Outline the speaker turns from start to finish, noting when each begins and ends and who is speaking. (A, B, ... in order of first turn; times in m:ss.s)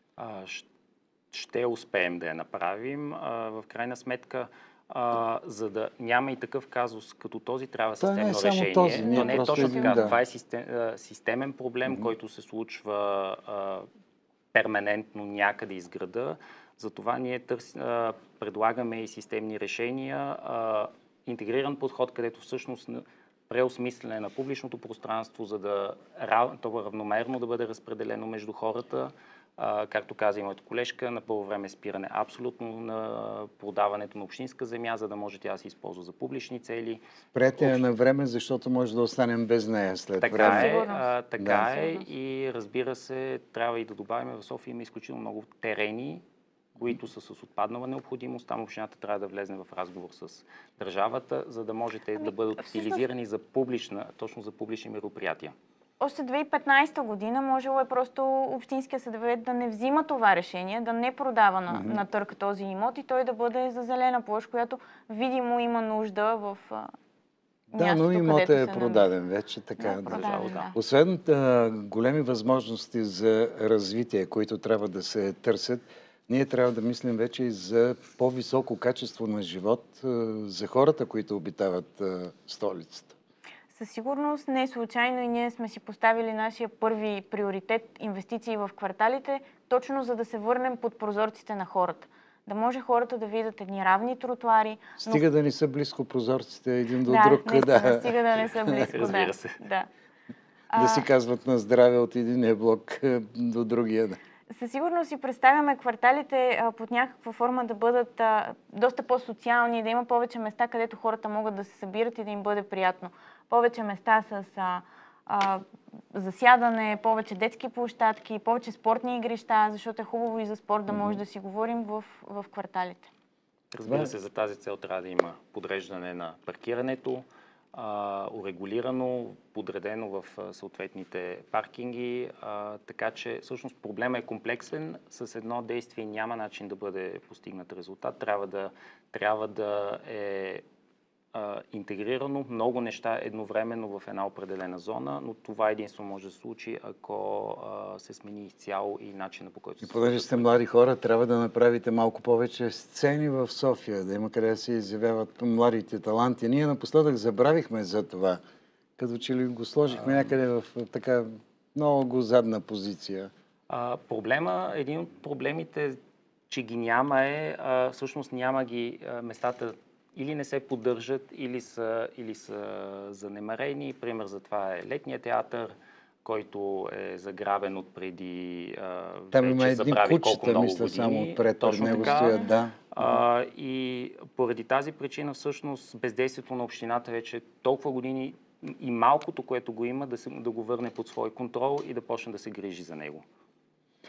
0:00.2-0:00.6 A
0:01.3-0:13.8 A
0:08.0-0:10.2 B
0:09.0-0:10.1 C
0:11.8-0:12.1 B
0:14.5-0:37.8 A
0:37.3-0:40.7 B
0:40.2-0:46.2 A
0:40.3-0:41.1 C
0:41.4-0:41.7 B
0:41.6-0:42.0 C
0:46.8-0:55.5 A
0:52.2-0:53.0 C
0:56.0-1:06.9 C
1:01.7-1:02.0 B
1:07.7-1:09.1 C
1:07.7-1:23.1 B
1:09.8-1:10.7 C
1:10.0-1:10.7 A
1:23.7-1:35.2 C
1:35.0-1:38.1 B
1:37.0-1:39.9 C
1:38.8-1:39.6 A
1:40.7-1:41.1 C
1:40.7-1:44.2 B
1:44.5-1:55.6 C
1:56.1-2:03.1 C
2:00.9-2:01.2 B
2:03.7-2:20.6 A
2:03.8-2:04.1 B
2:21.3-2:30.6 A
2:29.8-2:38.4 B
2:39.0-2:43.3 B
2:39.9-2:40.3 A
2:43.7-2:46.0 A
2:46.5-3:13.2 A
2:59.3-3:03.2 B
3:01.8-3:02.5 C